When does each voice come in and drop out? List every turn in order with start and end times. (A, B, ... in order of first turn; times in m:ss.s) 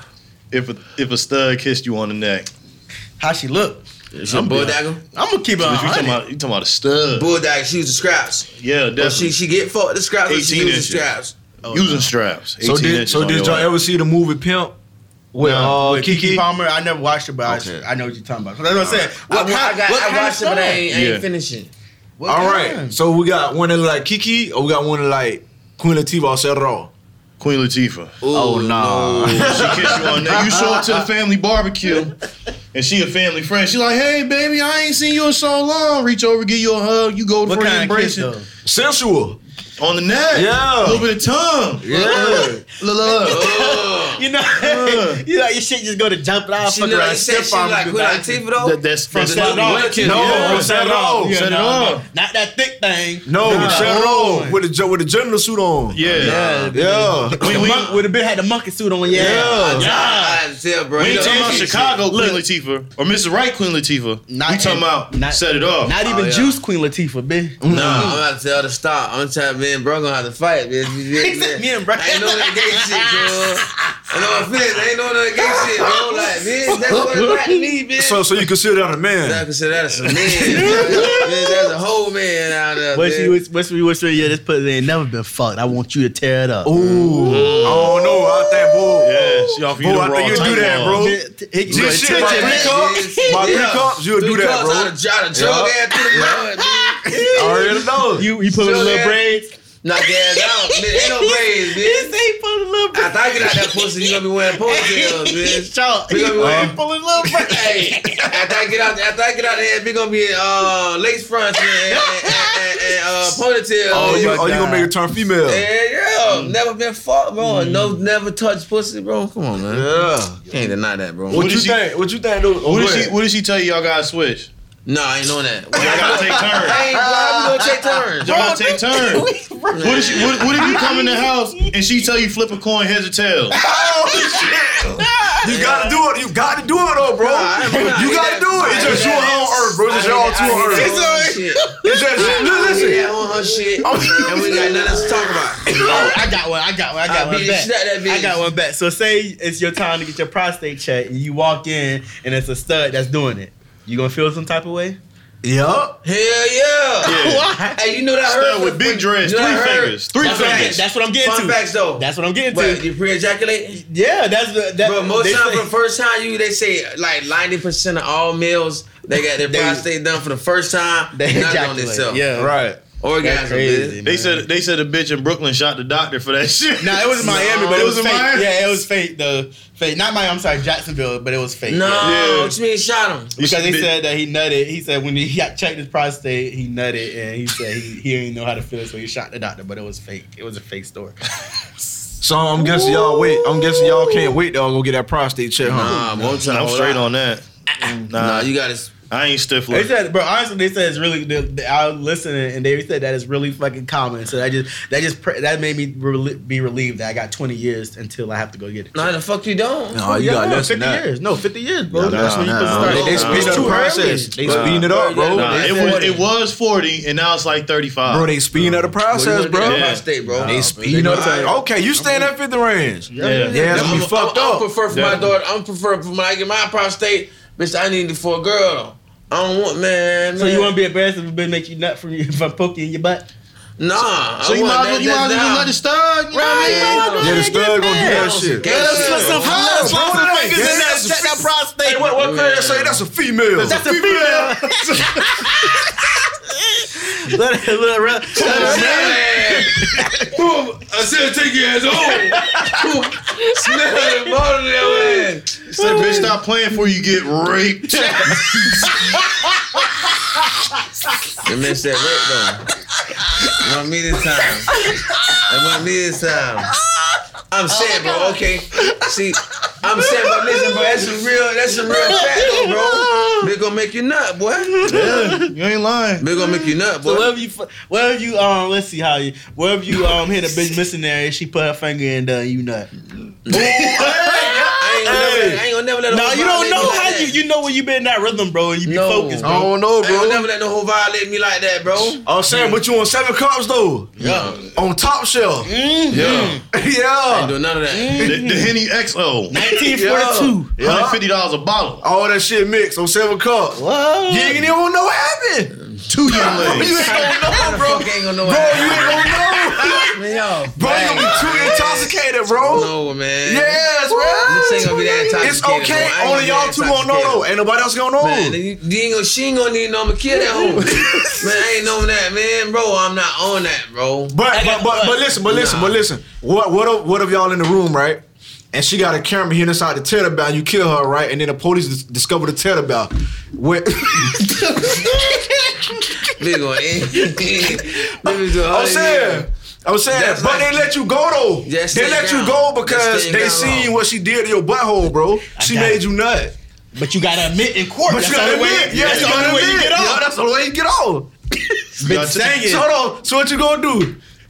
0:00.5-0:02.5 A
0:03.2-0:06.2 B
0:04.1-0:05.0 C
0:05.6-0:07.3 A
0:07.1-0:11.3 C
0:08.6-0:09.3 A
0:10.3-0:11.1 A
0:11.6-0:12.1 B
0:11.7-0:13.7 A
0:12.6-0:14.8 D
0:15.3-0:16.4 D
0:15.4-0:15.8 A
0:15.7-0:20.8 B
0:17.4-0:17.8 D
0:18.8-0:19.1 A
0:19.3-0:21.7 C
0:20.9-0:21.2 A
0:22.2-0:23.0 B
0:22.3-0:26.9 D
0:27.4-0:28.1 A
0:28.2-0:29.7 C
0:28.3-0:31.1 D
0:29.3-0:32.2 A
0:32.7-0:38.3 A
0:37.5-0:38.5 B
0:38.6-0:39.4 D
0:39.8-0:43.5 A
0:40.3-0:41.1 D
0:41.8-0:42.6 D
0:41.9-0:48.4 B
0:43.3-0:44.3 C
0:44.6-0:45.2 A
0:46.6-0:50.7 C
0:48.6-0:52.0 A
0:49.1-0:54.6 B
0:50.0-0:51.4 D
0:53.3-0:57.7 D
0:53.4-0:54.1 A
0:55.9-0:56.6 A
0:56.1-1:00.4 B
0:56.3-0:56.6 C
0:57.4-0:58.0 A
0:59.1-0:59.9 D
0:59.2-1:02.0 C
1:01.0-1:06.0 A
1:01.0-1:02.4 B
1:04.3-1:07.6 B
1:06.0-1:06.6 C
1:07.6-1:08.2 D
1:07.7-1:18.2 C
1:07.7-1:08.1 A
1:11.1-1:14.5 B
1:15.4-1:16.3 B
1:16.9-1:17.6 B
1:18.0-1:19.4 D
1:19.2-1:23.4 C
1:20.4-1:21.3 D
1:20.5-1:21.6 B
1:22.9-1:26.7 B
1:26.6-1:29.2 D
1:26.8-1:27.8 C
1:27.2-1:27.9 A
1:27.6-1:29.6 B
1:29.0-1:31.1 A
1:29.8-1:36.4 D
1:30.3-1:33.7 B
1:31.7-1:37.4 C
1:35.9-1:39.5 B
1:37.3-1:38.3 D
1:38.5-1:39.2 C
1:39.8-1:42.1 C
1:40.2-1:48.3 B
1:42.9-1:46.8 C
1:46.4-1:46.8 D
1:47.4-1:54.6 C
1:51.9-1:53.0 B
1:53.9-1:54.9 B
1:53.9-1:55.6 D
1:55.5-1:59.9 C
1:57.5-1:57.9 D
1:59.7-2:00.4 D
2:00.5-2:01.4 C
2:01.3-2:03.2 D
2:01.3-2:01.8 A
2:02.6-2:04.5 A
2:04.9-2:08.4 C
2:05.7-2:06.8 A
2:05.8-2:08.0 D
2:08.2-2:11.7 B
2:08.2-2:09.3 A
2:09.7-2:10.5 C
2:09.8-2:13.6 A
2:13.5-2:21.0 D
2:13.5-2:15.6 B
2:15.4-2:16.0 C
2:17.2-2:26.1 C
2:18.6-2:19.3 B
2:20.7-2:23.0 B
2:21.8-2:23.1 D
2:23.7-2:35.0 B
2:23.8-2:25.1 D
2:27.1-2:28.4 C
2:35.4-2:36.0 D
2:36.0-2:37.2 C
2:37.0-2:37.8 B
2:37.0-2:37.5 A
2:37.7-2:43.8 C
2:38.3-2:40.8 A
2:40.2-2:42.8 B
2:43.8-2:45.7 B
2:44.8-2:52.2 C
2:49.4-2:49.8 B
2:51.1-2:52.6 B
2:52.3-2:52.8 D
2:53.0-2:54.0 C
2:53.2-2:54.5 B
2:54.0-2:58.6 A
2:56.8-3:02.2 B
2:57.2-2:57.8 C
3:01.7-3:03.4 C
3:01.9-3:02.6 A
3:03.4-3:03.9 A
3:03.4-3:11.2 B
3:12.2-3:16.1 D
3:12.6-3:14.4 B
3:15.7-3:17.1 C
3:16.2-3:18.5 A
3:18.1-3:18.9 C
3:19.1-3:19.9 A
3:19.7-3:29.1 B
3:28.9-3:30.0 C
3:29.9-3:31.0 D
3:30.1-3:34.6 B
3:31.9-3:35.8 D
3:32.0-3:33.8 A
3:32.8-3:36.2 C
3:34.4-3:38.9 A
3:35.5-3:36.0 B
3:38.1-3:44.7 D
3:39.1-3:41.6 C
3:39.6-3:40.0 A
3:40.3-3:42.3 B
3:43.1-3:44.0 B
3:43.2-3:44.0 A
3:43.6-3:50.7 C
3:44.9-3:45.3 A
3:50.4-3:53.3 B
3:53.8-3:55.7 C
3:54.4-3:57.2 A
3:56.3-4:02.1 B
3:56.4-3:59.7 C
3:57.2-4:03.8 D
3:58.6-4:00.3 A
4:02.2-4:03.0 C
4:03.6-4:05.4 A
4:03.6-4:10.3 B
4:08.3-4:09.2 A
4:08.4-4:09.8 C
4:08.6-4:10.3 D
4:10.3-4:15.9 C
4:12.1-4:12.9 D
4:14.8-4:16.4 B
4:15.7-4:18.7 A
4:18.0-4:19.2 B
4:18.6-4:18.9 D
4:19.8-4:20.1 B
4:21.4-4:22.7 C
4:23.6-4:24.7 C
4:24.7-4:25.3 B
4:25.5-4:26.7 C
4:27.5-4:34.9 C
4:27.7-4:28.9 B
4:30.0-4:31.1 B
4:31.9-4:33.5 B
4:34.7-4:35.5 B
4:34.8-4:36.2 A
4:36.2-4:37.3 C
4:36.3-4:42.9 B
4:43.5-4:43.9 C
4:43.5-4:45.5 B
4:43.5-4:45.6 D
4:44.8-4:47.4 C
4:46.1-4:49.7 B
4:48.9-4:52.8 C
4:49.4-4:50.5 D
4:52.2-4:55.7 D
4:54.2-4:54.6 C
4:54.2-4:54.6 B
4:55.6-4:56.6 B
4:56.1-4:56.6 A
4:56.1-4:56.6 C
4:56.6-4:57.5 D
4:57.3-4:58.3 C
4:57.9-4:58.7 B
4:58.2-4:59.6 A
4:59.5-5:00.7 B
4:59.9-5:01.2 D
5:00.8-5:02.0 A
5:02.0-5:05.8 D
5:03.7-5:04.7 B
5:06.1-5:07.1 A
5:06.3-5:10.2 D
5:06.3-5:08.0 B
5:06.7-5:13.9 C
5:08.9-5:10.1 B
5:10.7-5:12.9 D
5:11.2-5:11.9 B
5:13.4-5:18.6 D
5:14.1-5:15.4 B
5:14.4-5:17.5 C
5:18.2-5:24.4 C
5:20.5-5:20.8 B
5:20.6-5:21.6 D
5:24.3-5:28.2 D
5:24.5-5:25.3 B
5:25.4-5:26.0 C
5:28.7-5:36.1 D
5:34.8-5:35.8 B
5:36.4-5:39.5 C
5:37.3-5:46.5 D
5:40.1-5:40.8 C
5:41.6-5:43.9 C
5:45.6-5:46.0 B
5:46.9-5:50.2 B
5:48.1-5:51.3 D
5:48.9-5:49.6 A
5:52.0-5:52.9 B
5:52.0-5:52.6 A
5:52.3-5:54.2 D